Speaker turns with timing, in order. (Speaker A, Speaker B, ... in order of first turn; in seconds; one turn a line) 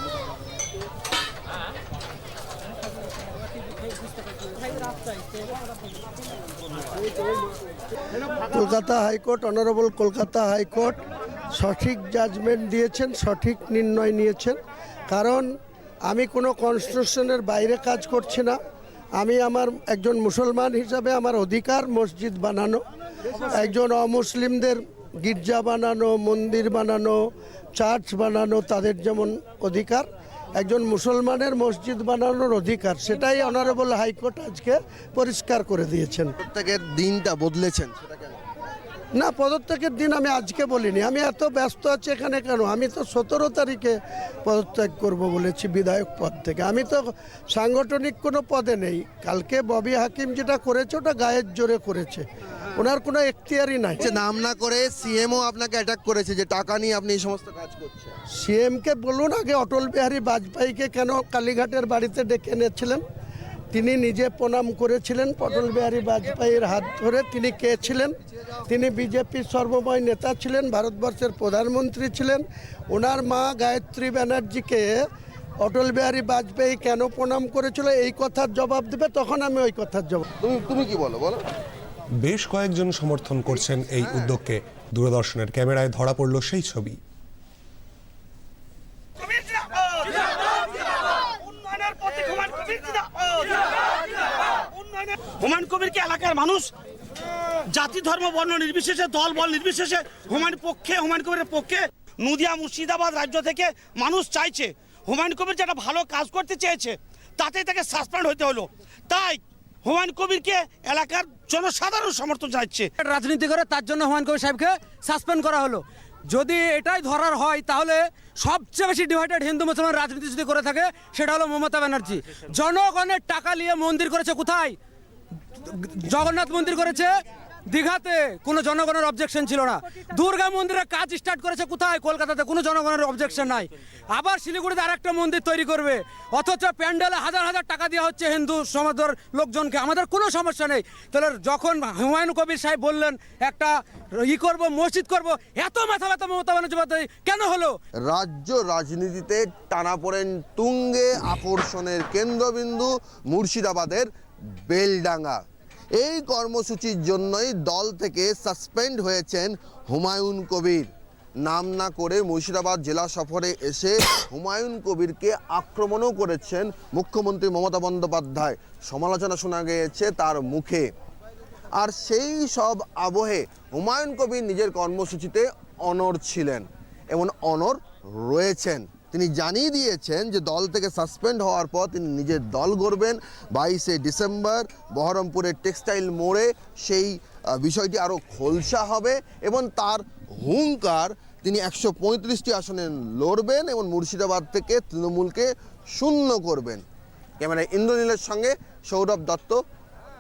Speaker A: 8.5-11.0
Speaker A: 11.6-15.5
Speaker A: 16.1-18.6
Speaker A: 19.2-22.8
Speaker A: 23.4-27.2
Speaker A: 27.8-36.4
Speaker B: 36.4-38.4
Speaker A: 39.1-54.1
Speaker B: 54.0-58.2
Speaker A: 58.4-63.0
Speaker A: 63.7-68.1
Speaker A: 68.7-75.0
Speaker A: 75.6-80.3
Speaker B: 80.4-81.4
Speaker C: 82.2-87.0
Speaker D: 89.2-96.7
Speaker D: 97.7-112.9
Speaker E: 113.0-124.8
Speaker E: 125.6-147.8
Speaker B: 148.1-154.1
Speaker B: 154.7-155.4
Speaker B: 156.0-170.9
Speaker B: 171.8-196.8
Speaker B: 197.4-199.6